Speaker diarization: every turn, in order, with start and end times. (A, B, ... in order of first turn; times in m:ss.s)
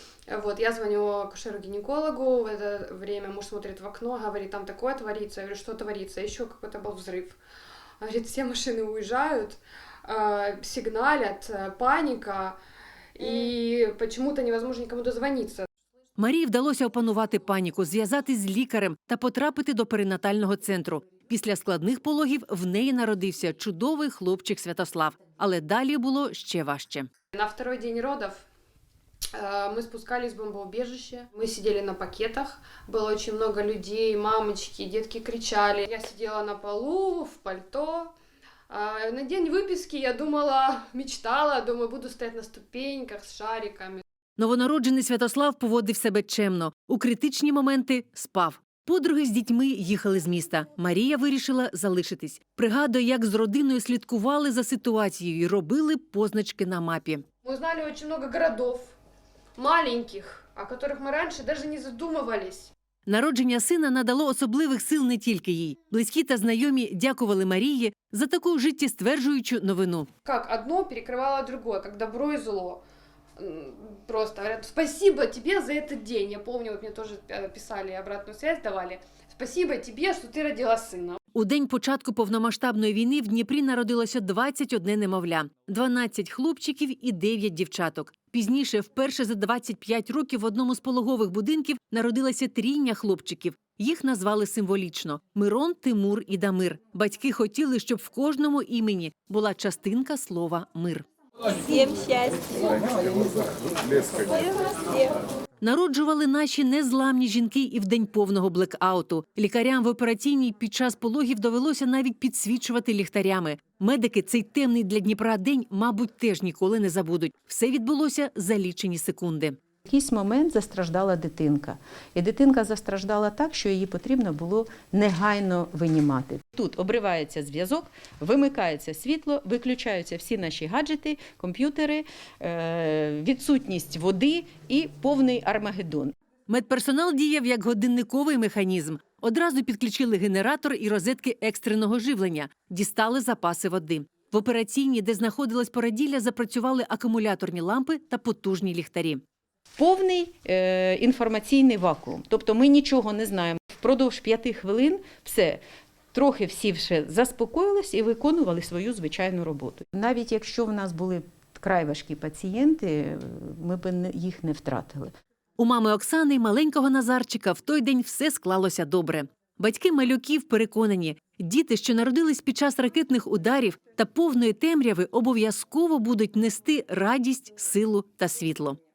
0:00.3-0:07.4 A
0:08.0-0:12.6 A
0:13.1-0:15.7 A
0:16.2-0:27.1 B
0:27.3-0:28.4 A
0:29.3-0:38.1 A
0:38.7-0:44.0 A
0:44.4-0:57.2 B
0:57.4-0:59.0 A
0:59.6-1:02.7 A
1:03.1-1:10.1 B
1:10.2-1:12.8 A
1:13.4-1:21.2 A
1:21.3-1:41.0 B
1:41.5-1:45.2 C
1:45.6-1:59.6 B
1:59.8-2:16.1 D
2:16.5-2:29.2 B
2:29.8-2:35.6 D
2:36.1-2:45.1 D
2:45.6-2:58.8 B